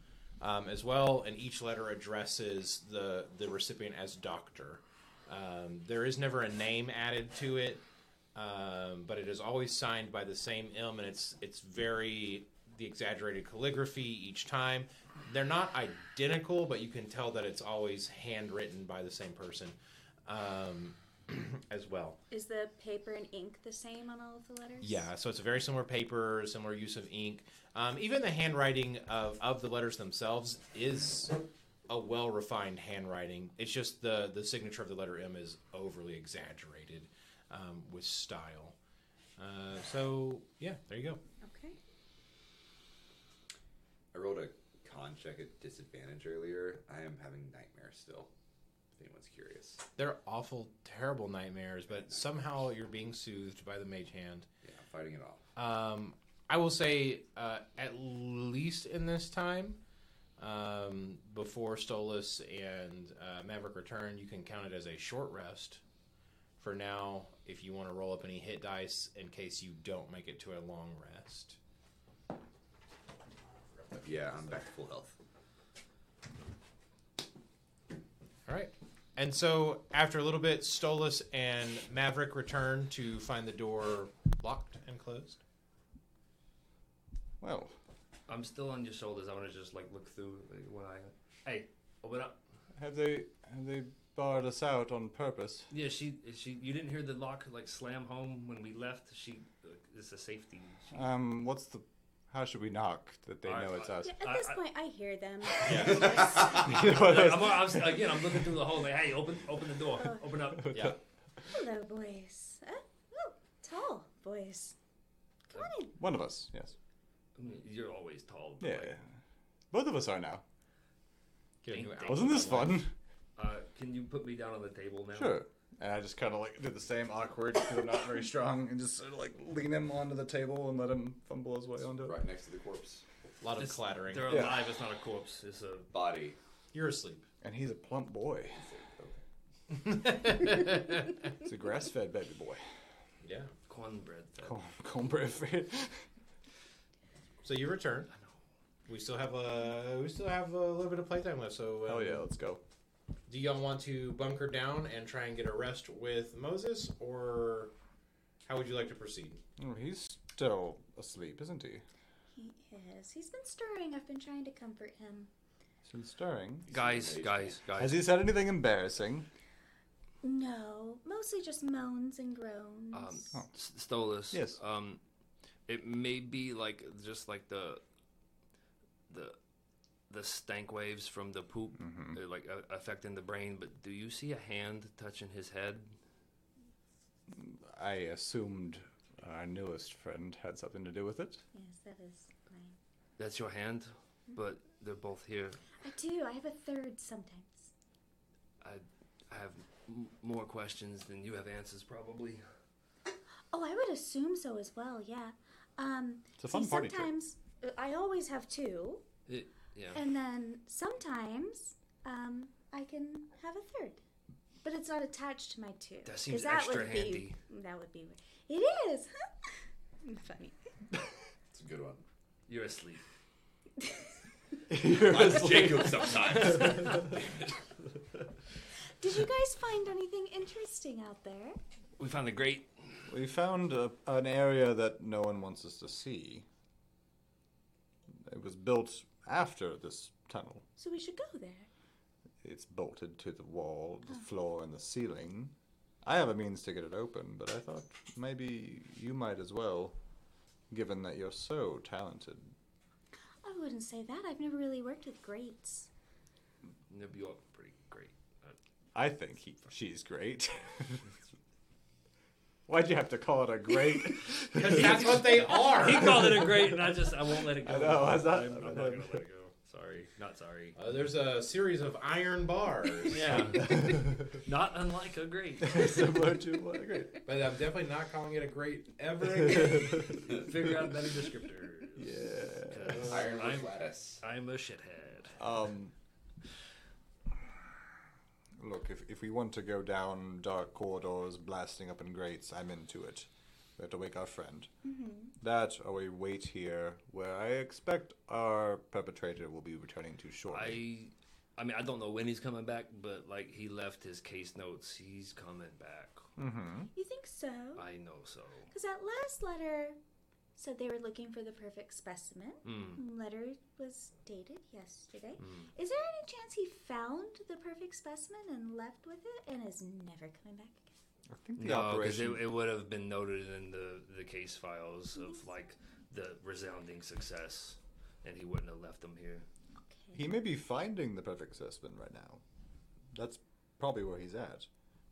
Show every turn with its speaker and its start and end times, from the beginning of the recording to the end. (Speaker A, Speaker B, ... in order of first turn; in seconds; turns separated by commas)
Speaker A: 0.4-7.8, Speaker A: 8.3-22.2, Speaker B: 22.3-25.1, Speaker A: 24.8-38.8, Speaker A: 39.4-41.2, Speaker B: 41.4-41.8, Speaker C: 44.1-48.3, Speaker C: 49.0-49.8, Speaker A: 50.0-54.5, Speaker C: 54.6-55.4, Speaker A: 55.5-59.8, Speaker A: 60.4-65.8, Speaker A: 66.6-71.6, Speaker C: 73.9-75.1, Speaker A: 78.5-85.4, Speaker D: 87.4-87.7, Speaker E: 88.3-92.4, Speaker D: 92.8-95.7, Speaker E: 95.7-101.0, Speaker D: 100.9-104.2, Speaker E: 103.4-104.6, Speaker B: 104.0-106.6, Speaker A: 105.6-106.4, Speaker E: 105.7-110.8, Speaker D: 106.5-108.5, Speaker D: 110.6-111.0, Speaker A: 110.7-111.0, Speaker B: 111.4-114.7, Speaker B: 115.5-115.9, Speaker D: 116.0-116.7, Speaker E: 117.3-118.9, Speaker D: 118.6-119.1, Speaker D: 119.7-120.4, Speaker A: 121.6-122.8, Speaker E: 121.7-122.7, Speaker D: 122.0-122.9, Speaker E: 123.3-125.4, Speaker D: 125.1-132.2, Speaker C: 132.0-133.0, Speaker A: 133.4-134.4, Speaker E: 133.6-135.9, Speaker D: 134.3-134.7, Speaker C: 135.9-136.3, Speaker A: 136.7-137.2, Speaker D: 137.4-138.7, Speaker C: 138.6-139.2, Speaker A: 139.7-141.2, Speaker D: 141.4-142.6, Speaker A: 143.2-143.5, Speaker E: 143.7-144.6, Speaker D: 144.4-146.0, Speaker A: 147.4-148.1, Speaker A: 148.9-152.2, Speaker D: 151.9-152.6, Speaker A: 153.3-157.7, Speaker A: 158.4-159.4, Speaker D: 159.6-161.8, Speaker B: 162.3-165.3, Speaker D: 165.8-166.7, Speaker C: 166.7-167.6, Speaker E: 166.7-168.1, Speaker D: 167.8-169.3, Speaker B: 170.2-173.2, Speaker E: 172.9-175.0, Speaker D: 174.3-174.6, Speaker E: 175.7-177.8, Speaker E: 179.1-179.4, Speaker E: 180.1-185.9, Speaker D: 181.8-182.2, Speaker D: 187.3-191.4, Speaker B: 191.5-192.8, Speaker E: 193.2-195.6, Speaker B: 195.8-197.7, Speaker E: 198.6-202.4, Speaker B: 203.5-209.0, Speaker D: 206.4-207.1, Speaker E: 209.3-210.0, Speaker B: 209.9-214.0, Speaker B: 214.6-220.6, Speaker E: 216.1-217.4, Speaker C: 221.5-222.0, Speaker E: 222.5-223.0, Speaker D: 224.7-226.9, Speaker C: 224.8-227.5, Speaker E: 226.5-227.0, Speaker B: 229.0-231.6, Speaker E: 232.0-233.0, Speaker D: 233.1-236.4, Speaker D: 238.1-240.6, Speaker B: 240.8-241.7, Speaker D: 242.4-249.9, Speaker D: 250.7-252.5, Speaker B: 253.4-255.9, Speaker E: 256.9-258.6, Speaker D: 258.9-261.1, Speaker D: 262.7-265.4, Speaker A: 264.5-266.3, Speaker E: 264.7-270.8, Speaker D: 265.9-266.9, Speaker D: 267.5-269.2, Speaker A: 270.7-273.6, Speaker E: 273.1-276.0, Speaker D: 273.6-274.3, Speaker D: 275.6-277.2, Speaker A: 277.2-280.2, Speaker D: 279.6-280.2, Speaker E: 280.2-285.4, Speaker D: 281.9-283.2, Speaker C: 282.9-284.2, Speaker D: 285.4-285.9, Speaker D: 288.6-294.7, Speaker B: 294.8-295.3, Speaker D: 295.4-300.8, Speaker E: 300.5-306.3, Speaker D: 306.4-306.9, Speaker B: 306.9-307.8, Speaker E: 307.8-308.7, Speaker B: 308.7-310.0, Speaker B: 310.6-320.9, Speaker E: 312.6-313.0, Speaker E: 315.4-315.7, Speaker D: 321.3-322.5, Speaker E: 321.6-329.4, Speaker B: 325.1-325.5, Speaker B: 329.9-330.2, Speaker D: 330.1-332.4, Speaker D: 333.1-334.7